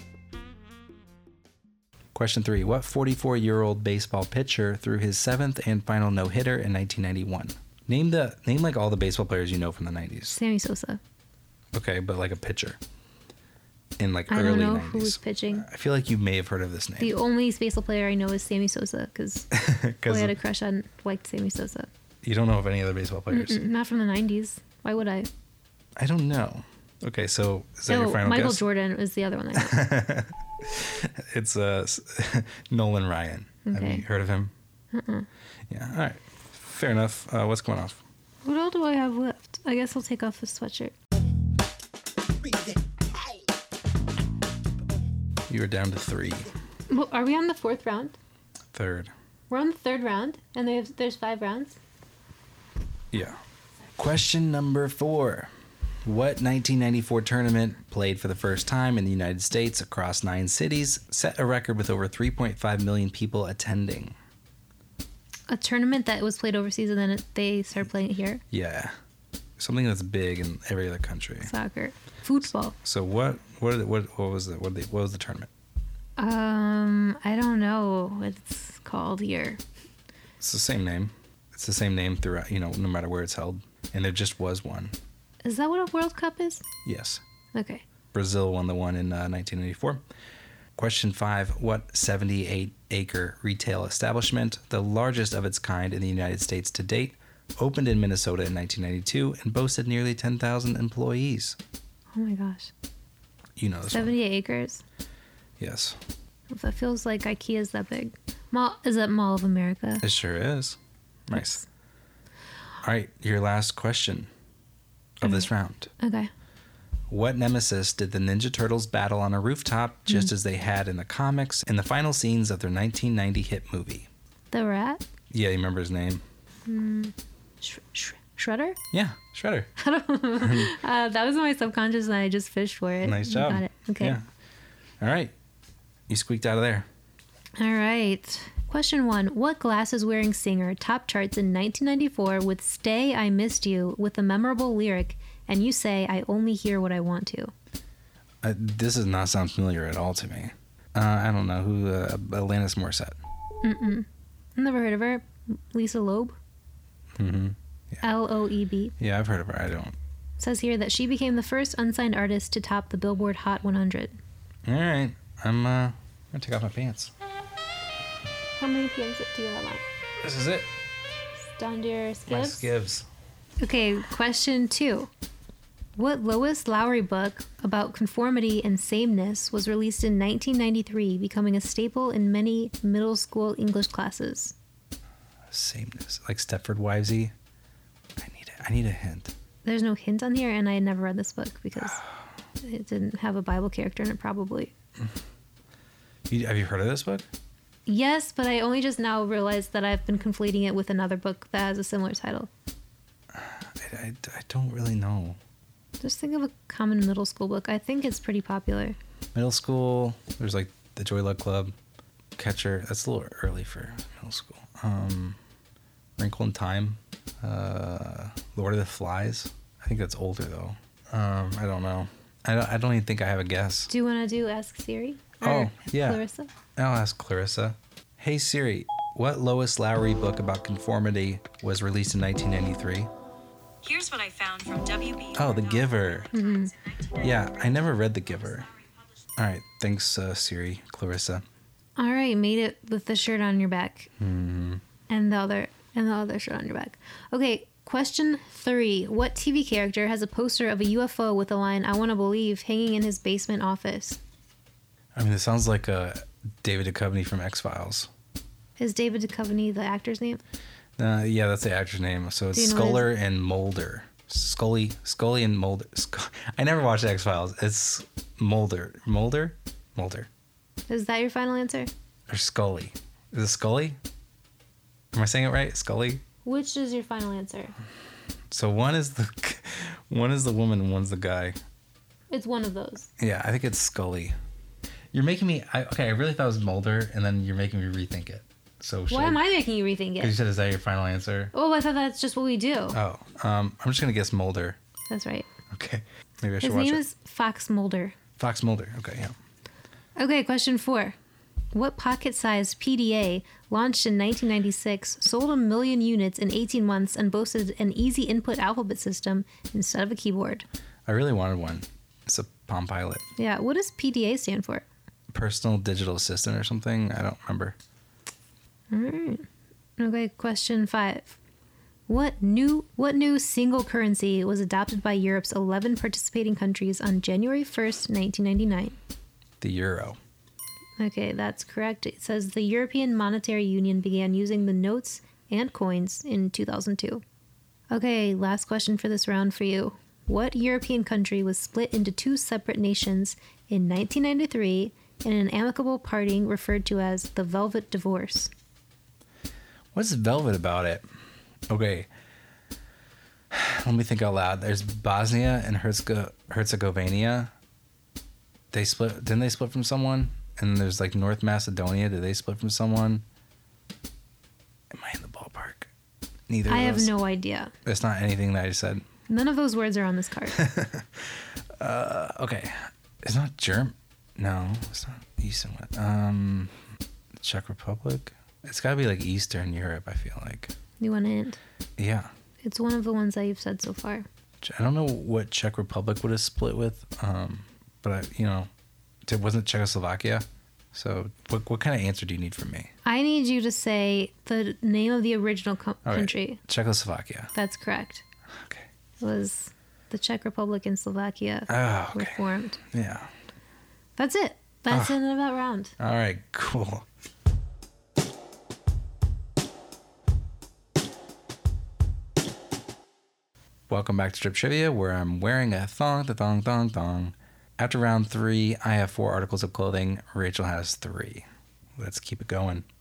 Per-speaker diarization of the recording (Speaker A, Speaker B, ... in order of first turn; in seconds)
Speaker A: 2.1-10.4, 11.7-12.8, 14.0-17.1, 19.5-20.4, 22.2-23.6, 26.0-28.6, 29.6-34.5, 35.7-38.0, 45.5-46.5, 48.7-49.1, 53.1-53.4, 54.0-55.5, 56.0-64.2, 68.5-68.9, 69.6-71.5, 72.8-75.5, 80.4-85.0, 86.8-87.2, 88.1-90.0, 90.8-101.6, 103.6-104.2, 105.6-106.0, 110.0-111.6, 112.8-114.3, 115.2-115.9, 117.1-124.1, 125.3-126.2, 128.9-129.7, 130.4-130.8, 133.0-134.3, 135.0-135.3, 136.1-136.9, 148.4-153.2, 157.2-158.1, 159.0-160.0, 164.7-167.1, 170.2-170.7, 172.3-173.1, 185.5-187.3, 188.2-189.3, 196.3-197.3, 203.3-205.4, 209.3-211.8, 212.4-215.4, 216.2-223.9, 225.4-226.2, 226.8-233.1, 235.3-236.3, 237.2-238.7, 239.4-241.4, 244.2-244.8, 255.2-258.1, 261.0-270.3, 272.3-274.0, 275.1-276.2, 278.5-281.6, 283.2-284.4, 285.1-289.4, 290.2-291.5, 292.9-294.8, 295.7-297.0, 298.4-299.4, 311.1-313.3, 315.3-317.8, 329.6-330.2, 349.9-351.0, 351.7-352.1, 353.5-357.5, 358.7-363.2, 364.9-365.9, 366.5-367.1, 367.9-369.1, 370.5-376.7, 377.4-380.7, 382.0-382.3, 384.6-388.7, 389.3-392.9, 396.1-397.5, 398.6-398.9, 401.7-403.3, 404.9-405.2, 406.0-407.1, 413.9-421.5, 422.0-422.9
Speaker B: 10.3-11.0, 14.3-15.7, 17.0-19.5, 20.1-21.9, 23.3-25.3, 27.9-29.8, 33.7-34.0, 34.9-35.3, 38.4-41.0, 46.9-48.2, 49.5-51.8, 65.5-68.4, 71.4-72.8, 76.2-79.6, 85.4-86.7, 87.5-87.8, 102.1-102.7, 103.9-104.8, 106.5-110.0, 111.3-111.7, 115.2-116.3, 124.5-125.0, 126.7-128.8, 129.8-134.2, 137.6-147.5, 153.6-156.4, 158.0-158.9, 160.4-164.2, 168.6-169.8, 171.5-172.7, 173.6-175.1, 176.0-184.6, 189.7-192.0, 192.6-194.7, 197.9-202.5, 206.0-209.0, 223.9-226.5, 236.3-236.7, 242.0-244.1, 245.1-254.2, 258.8-260.4, 262.5-263.1, 270.9-271.9, 276.4-277.7, 282.3-283.1, 289.1-290.3, 291.5-293.0, 295.1-295.5, 296.6-298.2, 300.2-301.2, 301.7-310.6, 313.4-314.9, 318.9-319.4, 320.0-321.4, 322.1-329.0, 331.0-337.2, 337.9-348.5, 366.7-367.7, 369.3-370.6, 381.0-381.6, 382.6-384.3, 393.1-396.6, 397.6-398.2, 399.2-402.8, 404.2-405.9
Speaker C: 233.8-237.2